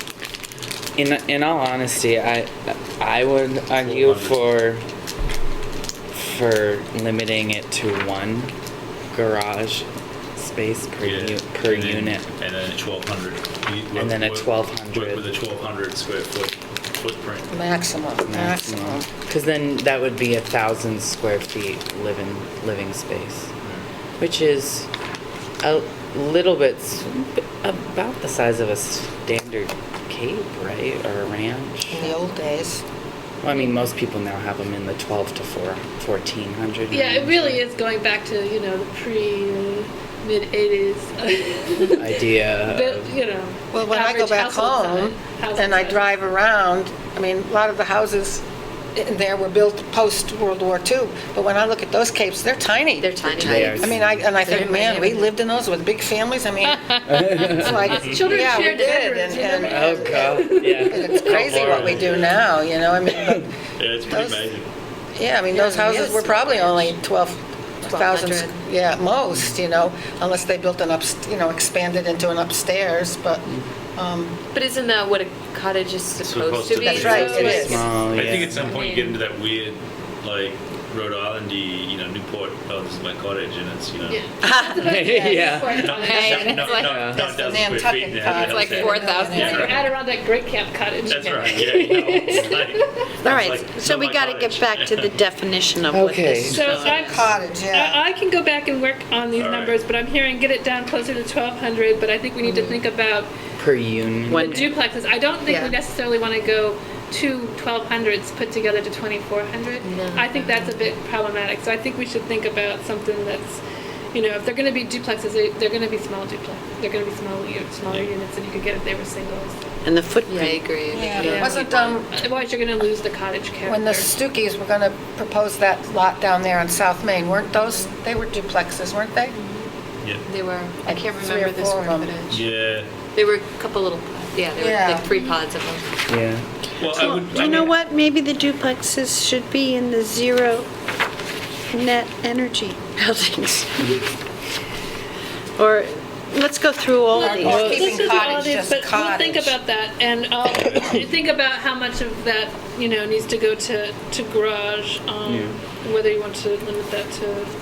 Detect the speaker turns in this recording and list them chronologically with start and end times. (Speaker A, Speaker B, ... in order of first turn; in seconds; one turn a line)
Speaker A: 1.0-4.8
Speaker B: 3.7-4.6
Speaker A: 6.1-8.5
Speaker A: 9.1-12.2
Speaker B: 11.0-17.5
Speaker A: 13.9-15.2
Speaker C: 17.5-19.1
Speaker A: 18.2-23.5
Speaker A: 24.2-24.9
Speaker A: 25.6-32.2
Speaker C: 31.9-32.8
Speaker A: 33.4-37.6
Speaker D: 36.9-46.2
Speaker A: 42.0-43.1
Speaker C: 43.7-48.4
Speaker C: 48.9-63.5
Speaker E: 53.0-55.3
Speaker A: 53.4-54.2
Speaker E: 56.9-57.6
Speaker A: 57.1-57.8
Speaker D: 57.9-61.4
Speaker B: 57.9-58.4
Speaker A: 59.5-62.2
Speaker B: 61.2-62.5
Speaker B: 63.8-64.7
Speaker C: 64.1-64.5
Speaker C: 65.2-74.4
Speaker E: 65.5-67.0
Speaker E: 67.8-68.6
Speaker E: 74.5-79.2
Speaker B: 76.2-84.2
Speaker C: 76.8-77.9
Speaker A: 76.8-78.7
Speaker D: 84.1-86.8
Speaker A: 84.7-85.9
Speaker C: 84.8-85.9
Speaker B: 85.7-89.9
Speaker F: 86.0-87.1
Speaker C: 86.6-89.8
Speaker A: 86.8-87.2
Speaker F: 88.2-89.5
Speaker D: 89.3-92.8
Speaker B: 91.1-95.2
Speaker F: 93.2-97.2
Speaker A: 95.9-96.6
Speaker D: 96.5-103.3
Speaker C: 96.7-98.0
Speaker B: 99.3-99.7
Speaker E: 102.4-102.8
Speaker A: 103.6-104.5
Speaker F: 104.3-104.7
Speaker D: 104.3-113.6
Speaker E: 105.5-105.7
Speaker E: 109.8-110.8
Speaker D: 114.1-119.6
Speaker F: 119.8-120.7
Speaker E: 120.2-121.8
Speaker C: 120.9-122.1
Speaker D: 120.9-124.1
Speaker C: 123.7-129.3
Speaker E: 129.3-129.7
Speaker E: 130.2-132.4
Speaker C: 130.8-132.2
Speaker B: 132.3-132.9
Speaker E: 133.1-135.8
Speaker C: 134.6-135.2
Speaker A: 136.1-136.5
Speaker B: 136.8-137.8
Speaker F: 136.8-140.7
Speaker F: 141.7-143.9
Speaker F: 145.6-148.2
Speaker D: 147.1-157.5
Speaker C: 147.1-149.6
Speaker A: 147.4-147.9
Speaker A: 155.2-155.5